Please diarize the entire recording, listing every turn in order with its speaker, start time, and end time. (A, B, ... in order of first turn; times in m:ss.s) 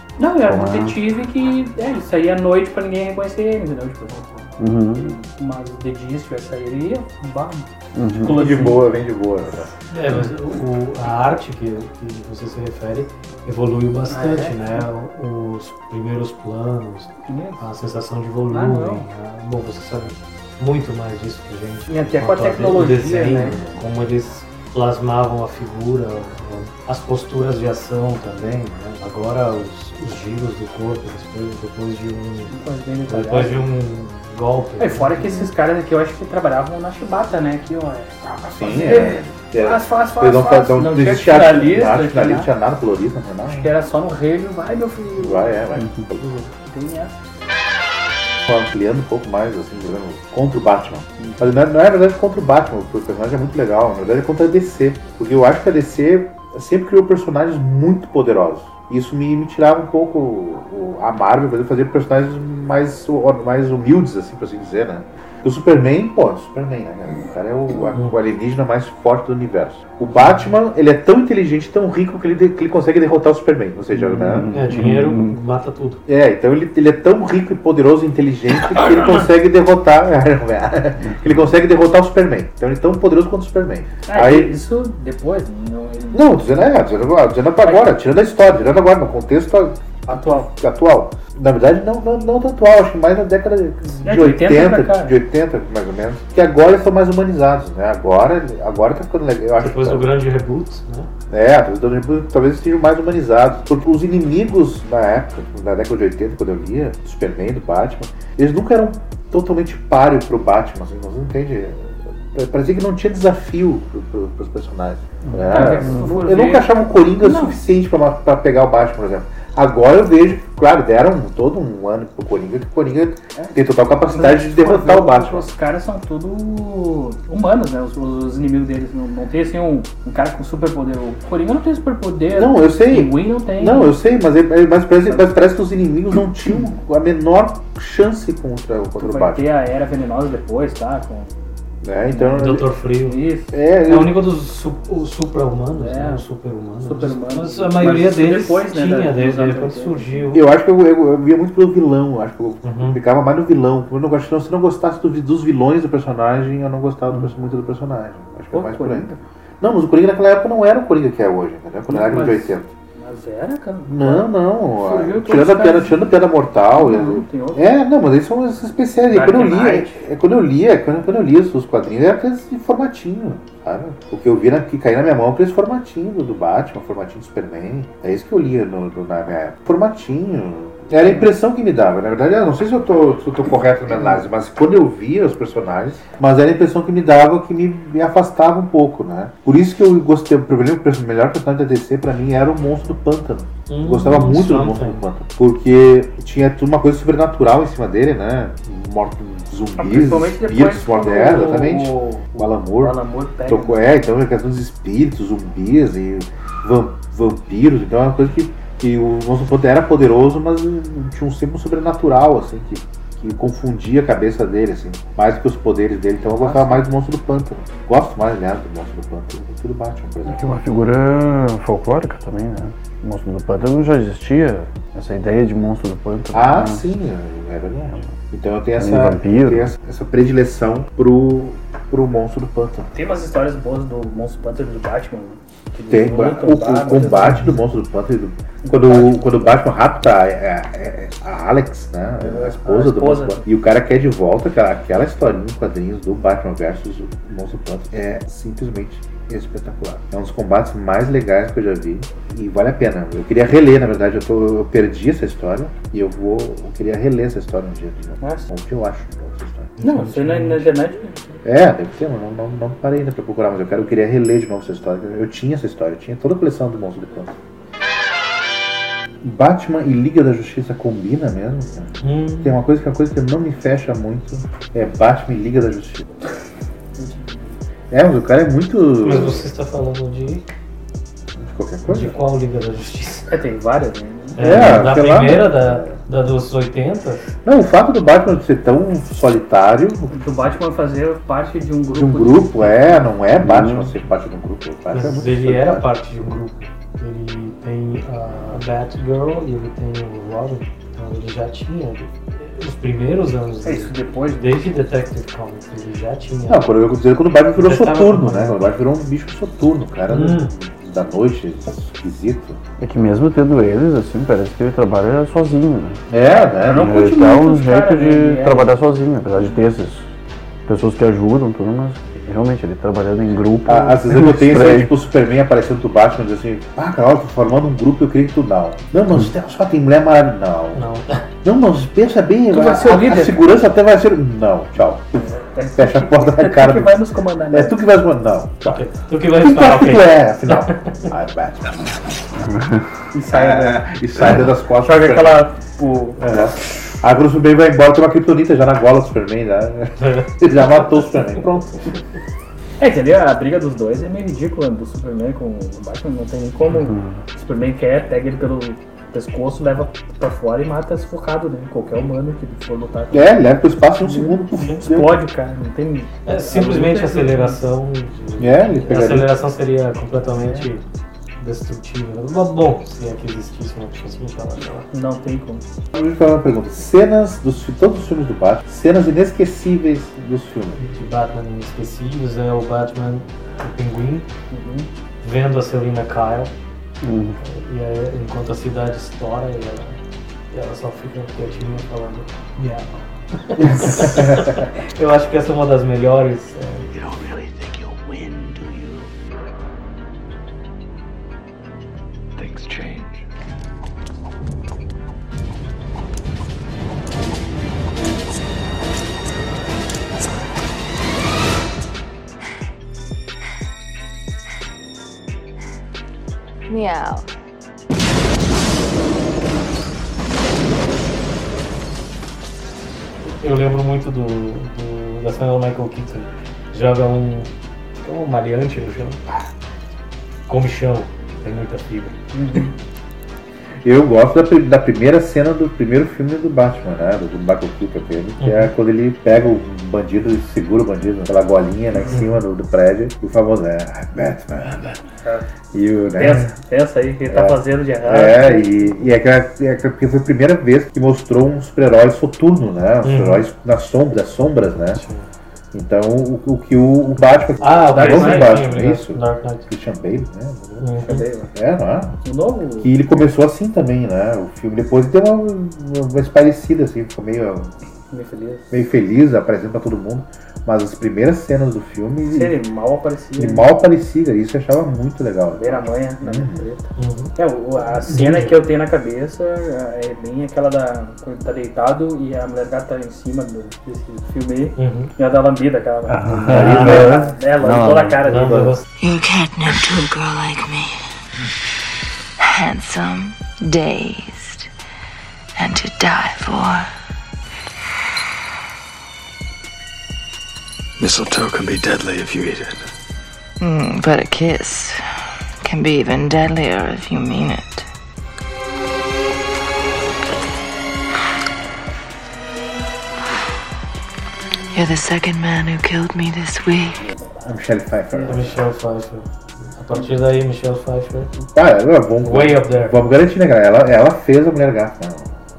0:00.2-0:08.8 A
0:00.4-0:01.0 B
0:04.6-0:05.1 B
0:07.9-0:08.8 B
0:08.3-0:09.7 C
0:09.9-0:32.5 D
0:14.1-0:14.8 A
0:17.3-0:17.6 A
0:18.5-0:19.0 A
0:21.9-0:23.7 A
0:32.5-0:33.7 A
0:33.1-0:35.4 D
0:34.8-0:42.5 A
0:38.4-0:43.7 C
0:43.4-0:47.1 A
0:45.2-0:46.4 C
0:48.4-1:14.5 C
1:13.9-1:15.3 B
1:14.5-1:16.0 D
1:16.1-1:24.5 C
1:24.1-1:26.7 A
1:26.1-1:40.1 C
1:27.6-1:27.9 A
1:30.1-1:30.5 A
1:34.0-1:35.2 A
1:39.6-1:41.1 D
1:41.3-2:05.5 C
1:55.3-1:56.1 B
1:55.4-1:57.6 A
2:04.0-2:14.0 A
2:12.3-2:19.4 C
2:15.0-2:15.3 A
2:19.0-2:21.3 A
2:21.8-2:22.7 C
2:22.1-2:22.4 A
2:22.3-2:23.2 D
2:23.0-2:23.5 A
2:23.5-2:24.2 C
2:23.8-2:30.4 D
2:25.7-2:26.2 A
2:26.8-2:30.3 A
2:30.3-2:42.7 C
2:32.6-2:33.0 D
2:38.5-2:39.2 A
2:41.9-2:46.1 A
2:43.9-3:40.6 C
2:46.7-2:47.7 A
2:49.1-2:50.0 A
3:01.0-3:01.3 A
3:13.7-3:15.0 D
3:19.8-3:23.9 A
3:36.4-3:36.8 A
3:40.3-3:46.8 B
3:46.3-3:52.9 C
3:48.8-3:49.7 B
3:52.9-3:57.5 A
3:55.9-4:19.7 C
3:58.6-3:59.5 A
4:02.2-4:03.4 A
4:18.2-4:18.5 A
4:19.8-4:20.6 D
4:19.8-4:21.4 A
4:21.4-4:27.3 C
4:29.2-4:36.1 C
4:32.0-4:32.6 D
4:37.0-4:37.6 A
4:37.9-4:39.5 C
4:39.0-4:40.4 D
4:41.4-4:42.2 C
4:41.9-4:43.3 D
4:43.3-4:44.6 A
4:44.4-4:47.3 D
4:44.4-4:46.0 C
4:47.4-4:50.1 C
4:50.1-4:52.9 A
4:51.9-4:55.9 C
4:53.4-4:53.9 B
4:54.9-5:06.7 D
5:03.6-5:04.8 A
5:06.5-5:12.6 C
5:07.5-5:08.6 D
5:10.1-5:10.5 D
5:12.8-5:16.0 B
5:16.1-5:16.9 C
5:16.3-5:18.7 A
5:16.7-5:20.1 B
5:20.7-5:24.9 B
5:23.6-5:30.8 C
5:30.7-5:31.2 D
5:31.4-5:37.0 C
5:32.5-5:33.4 A
5:35.1-5:37.8 A
5:37.5-5:42.1 C
5:38.6-5:40.8 D
5:42.4-5:42.9 B
5:43.1-5:43.8 A
5:43.3-5:45.5 C
5:44.8-5:46.7 A
5:46.2-5:52.0 C
5:50.0-5:50.3 D
5:52.8-6:03.3 A
5:56.7-5:57.2 B
6:03.1-6:05.2 C
6:04.0-6:07.6 A
6:06.2-6:10.8 D
6:08.4-6:09.3 C
6:10.3-6:10.6 A
6:11.4-6:14.8 D
6:14.9-6:15.6 A
6:15.9-6:20.8 C
6:20.8-6:24.3 D
6:24.5-6:24.9 A
6:25.2-6:26.5 D
6:27.0-6:27.4 B
6:27.4-6:30.0 D
6:30.5-6:32.3 D
6:32.6-6:32.9 A
6:33.4-6:36.8 D
6:33.7-6:34.6 C
6:36.9-6:38.2 E
6:42.4-6:43.2 E
6:56.7-6:57.2 F
7:03.2-7:07.5 D
7:08.0-7:09.2 D
7:10.5-7:12.1 D
7:12.3-7:12.7 A
7:13.8-7:25.0 C
7:18.4-7:18.7 D
7:25.7-7:26.5 C
7:26.2-7:28.9 A
7:27.3-7:35.0 C
7:33.0-7:33.4 D
7:34.9-7:35.3 D
7:35.7-7:41.0 C
7:37.6-7:39.7 D
7:37.9-7:38.6 A
7:40.8-7:41.2 D
7:41.0-7:41.5 A
7:41.5-7:42.2 C
7:42.2-7:42.9 A
7:42.8-7:47.7 C
7:48.1-7:48.8 A
7:48.7-7:52.6 C
7:52.3-7:53.7 A
7:53.4-7:56.7 C
7:55.6-8:08.8 A
7:57.0-7:57.3 D
7:58.1-7:58.5 D
8:04.8-8:05.1 D
8:06.1-8:08.6 B
8:06.4-8:07.2 C
8:06.5-8:07.2 D
8:08.3-8:08.8 D
8:09.0-8:11.0 F
8:12.4-8:14.7 F
8:15.6-8:16.9 F
8:21.0-8:22.8 E
8:23.6-8:25.0 F
8:25.6-8:27.8 F
8:34.7-8:37.0 F
8:37.3-8:38.7 C
8:38.1-8:41.3 D
8:41.4-8:45.3 C
8:42.2-8:43.0 D